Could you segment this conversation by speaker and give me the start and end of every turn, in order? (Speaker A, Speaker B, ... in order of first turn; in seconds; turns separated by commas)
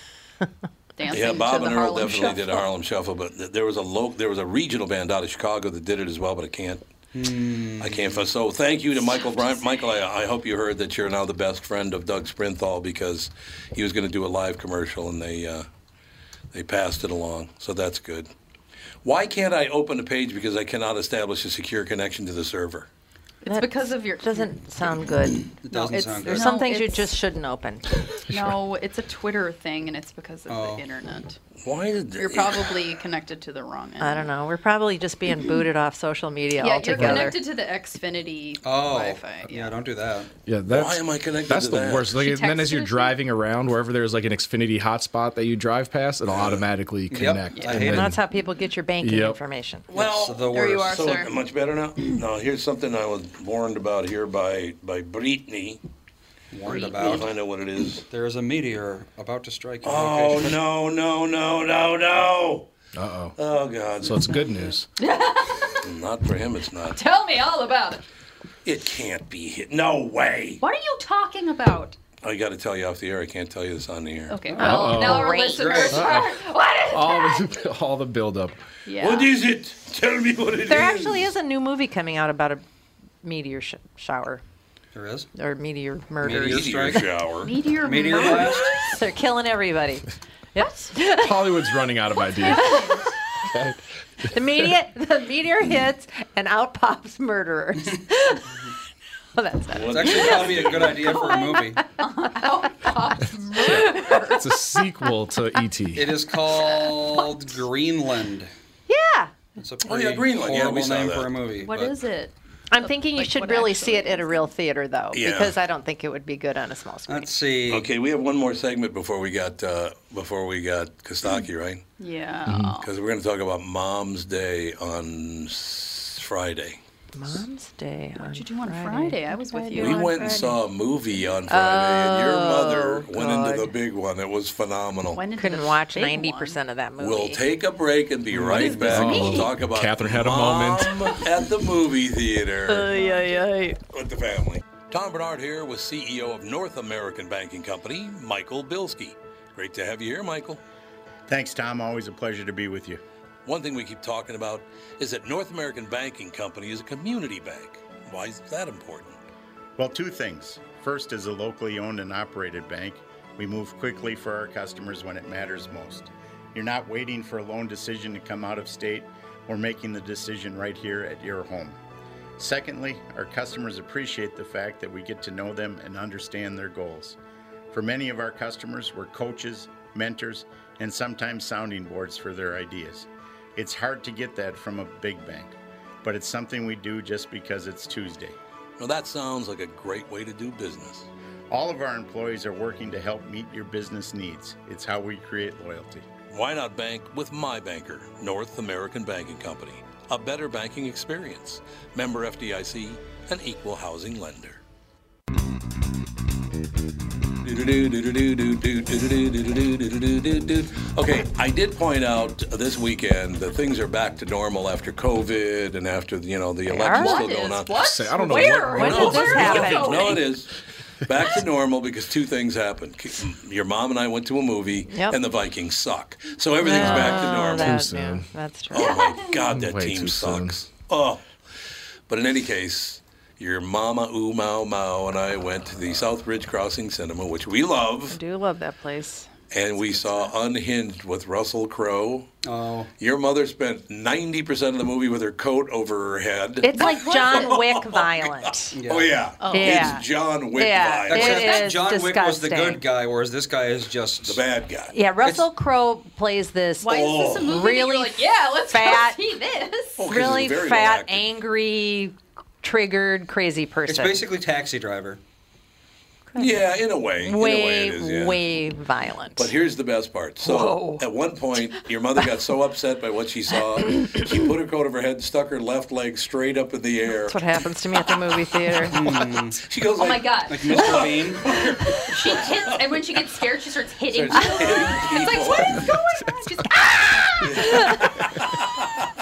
Speaker A: 1.0-2.6, Speaker B: 1.1-6.8, Speaker C: 7.1-8.3, Speaker B: 7.8-15.7, Speaker B: 16.5-18.3, Speaker B: 19.0-22.9, Speaker A: 23.4-24.5, Speaker D: 23.4-28.2, Speaker C: 25.6-26.6, Speaker A: 25.7-27.1, Speaker A: 28.3-31.4, Speaker C: 30.5-30.8, Speaker B: 31.6-32.8, Speaker A: 32.2-34.3, Speaker D: 34.0-37.4, Speaker A: 36.6-39.8, Speaker E: 37.0-37.3, Speaker C: 38.6-40.3, Speaker E: 40.5-48.2, Speaker B: 40.7-42.2, Speaker A: 42.1-43.2, Speaker B: 46.3-46.6, Speaker C: 47.1-48.1, Speaker A: 47.5-47.9, Speaker D: 47.8-49.9, Speaker E: 49.0-49.4, Speaker B: 49.9-55.8, Speaker C: 49.9-51.1, Speaker A: 50.5-51.3, Speaker C: 56.5-57.3, Speaker A: 56.7-57.2, Speaker B: 57.0-58.0, Speaker C: 58.1-60.5, Speaker B: 59.8-62.7, Speaker E: 62.9-63.3, Speaker B: 63.4-64.3, Speaker E: 64.0-64.9, Speaker A: 64.2-65.8, Speaker B: 65.8-67.0, Speaker A: 66.9-68.0, Speaker B: 68.6-70.6, Speaker A: 70.6-72.0, Speaker B: 72.2-74.4, Speaker A: 74.3-77.5, Speaker C: 74.4-76.0, Speaker D: 74.6-76.0, Speaker E: 74.6-75.3, Speaker E: 75.9-76.3, Speaker E: 76.9-78.6, Speaker A: 78.8-79.3, Speaker B: 79.0-81.3, Speaker D: 80.7-82.6, Speaker D: 83.2-84.4, Speaker C: 84.9-85.3, Speaker D: 85.3-87.0, Speaker C: 86.2-87.2, Speaker B: 86.2-87.5, Speaker A: 87.4-89.0, Speaker C: 87.8-88.8, Speaker D: 88.1-91.6, Speaker E: 91.2-92.8, Speaker A: 92.4-93.1, Speaker D: 92.5-92.9, Speaker D: 94.3-98.4, Speaker D: 99.3-100.5, Speaker B: 99.7-101.1, Speaker C: 99.9-101.8, Speaker A: 101.0-104.5, Speaker D: 101.3-101.6, Speaker E: 103.6-106.1, Speaker C: 105.9-108.5, Speaker A: 106.5-107.2, Speaker D: 108.9-109.3, Speaker C: 109.6-112.0, Speaker B: 109.8-111.3, Speaker A: 111.6-114.5, Speaker D: 112.7-117.3, Speaker B: 115.1-115.5, Speaker C: 117.1-117.9, Speaker B: 117.7-121.8, Speaker A: 122.0-122.9, Speaker E: 122.5-122.7, Speaker B: 122.8-126.8, Speaker D: 127.2-130.6, Speaker A: 128.2-130.4, Speaker B: 129.7-135.2, Speaker D: 131.5-133.7, Speaker A: 135.1-136.6, Speaker D: 135.4-137.4, Speaker B: 137.0-143.0, Speaker C: 138.4-138.9, Speaker A: 138.6-139.5, Speaker E: 138.8-141.0, Speaker D: 142.7-143.8, Speaker B: 143.9-150.6, Speaker F: 151.3-153.0, Speaker B: 153.4-159.2, Speaker F: 159.8-171.8, Speaker F: 172.4-177.2, Speaker F: 177.7-188.3, Speaker B: 188.8-191.1, Speaker F: 191.5-196.1, Speaker B: 196.3-204.6, Speaker B: 207.4-217.8, Speaker D: 216.7-217.3, Speaker A: 216.9-220.3, Speaker E: 217.7-219.3, Speaker D: 218.6-220.2, Speaker B: 218.7-220.5, Speaker B: 221.0-227.8, Speaker D: 224.9-225.2, Speaker D: 226.6-229.0, Speaker E: 226.8-228.3, Speaker B: 228.7-231.2, Speaker A: 228.8-229.4, Speaker E: 229.5-230.6, Speaker B: 232.1-238.2, Speaker D: 238.1-239.3, Speaker B: 239.5-242.3, Speaker C: 242.4-242.9, Speaker B: 243.0-251.6, Speaker D: 246.6-248.8, Speaker A: 246.7-247.6, Speaker C: 248.7-249.2, Speaker A: 249.4-250.0, Speaker D: 249.5-252.8, Speaker C: 251.1-254.4, Speaker B: 254.2-254.9, Speaker D: 254.9-259.2, Speaker A: 256.8-260.1, Speaker B: 256.9-257.5, Speaker B: 260.0-261.3, Speaker D: 260.1-264.2, Speaker C: 263.9-265.2, Speaker D: 266.3-266.6, Speaker B: 266.4-268.4, Speaker D: 267.1-269.5, Speaker B: 269.4-277.4, Speaker D: 270.4-271.0, Speaker D: 277.2-279.1, Speaker C: 278.9-279.6, Speaker B: 279.6-282.9, Speaker A: 279.9-280.7, Speaker C: 280.5-281.4, Speaker A: 282.1-287.3, Speaker B: 284.1-285.9, Speaker B: 287.4-289.1, Speaker D: 287.4-288.0